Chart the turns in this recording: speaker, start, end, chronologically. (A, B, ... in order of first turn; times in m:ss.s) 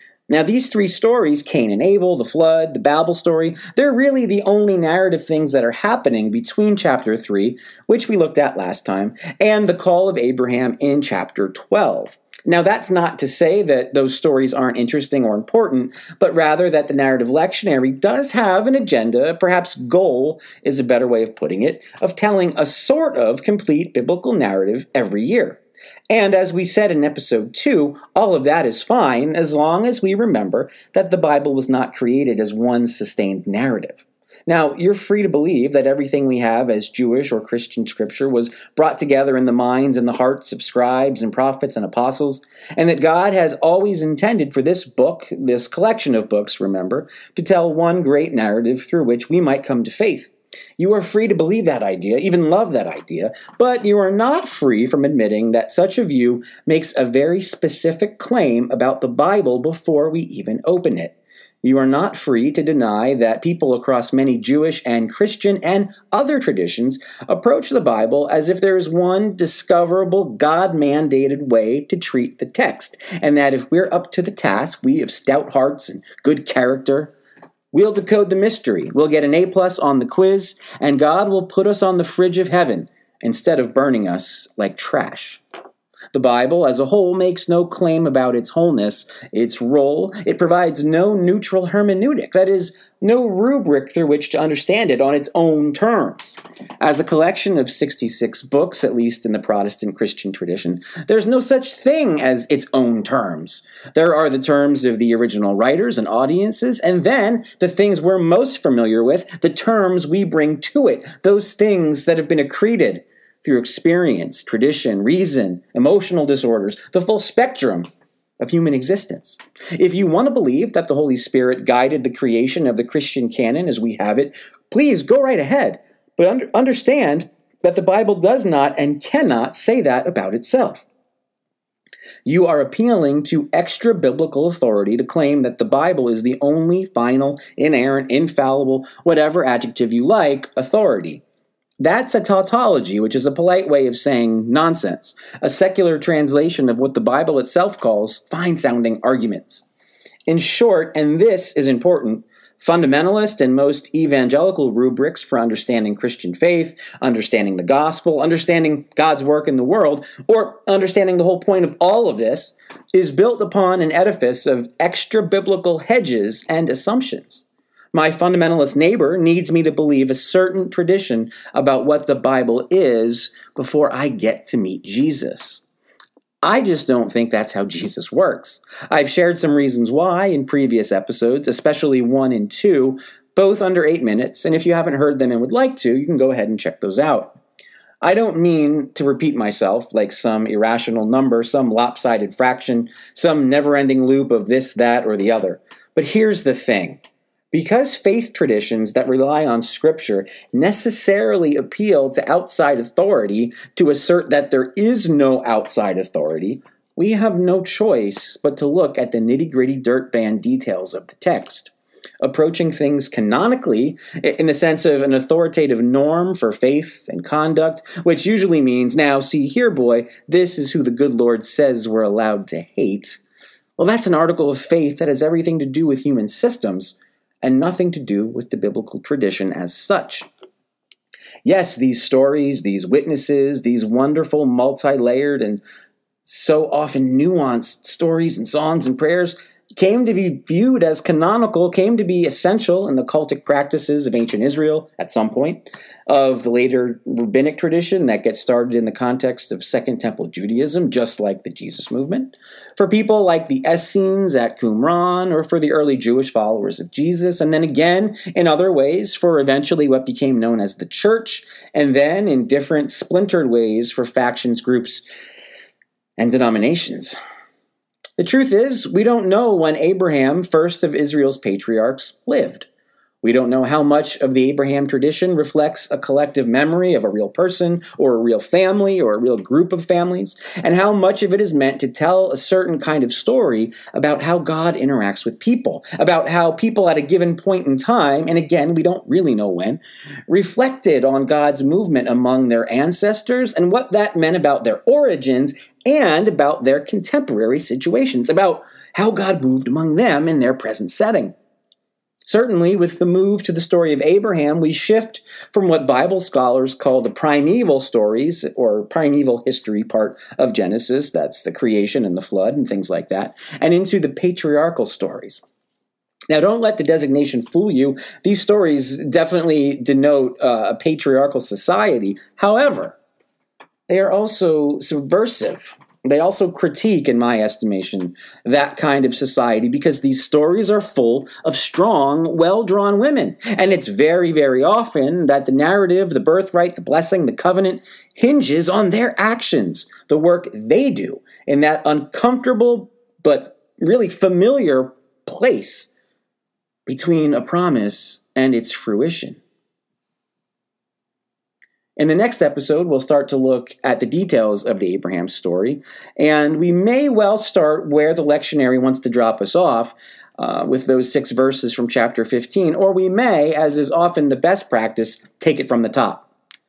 0:00.3-1:17.1 A
1:17.7-1:25.4 A
1:26.1-1:57.9 A
1:58.4-2:10.9 A
2:12.2-2:21.2 A
2:21.8-2:29.6 A
2:30.3-2:55.6 A
2:56.4-3:07.4 A
3:08.0-3:17.0 A
3:17.5-3:43.2 A
3:43.8-3:50.3 A
3:51.4-3:55.6 A
3:56.2-4:25.0 A
4:26.2-4:27.2 A
4:28.2-4:32.7 A
4:33.2-5:01.3 A
5:02.2-5:15.4 A
5:16.3-5:23.0 A
5:23.9-5:45.9 A
5:46.9-5:49.4 A
5:52.0-6:06.3 A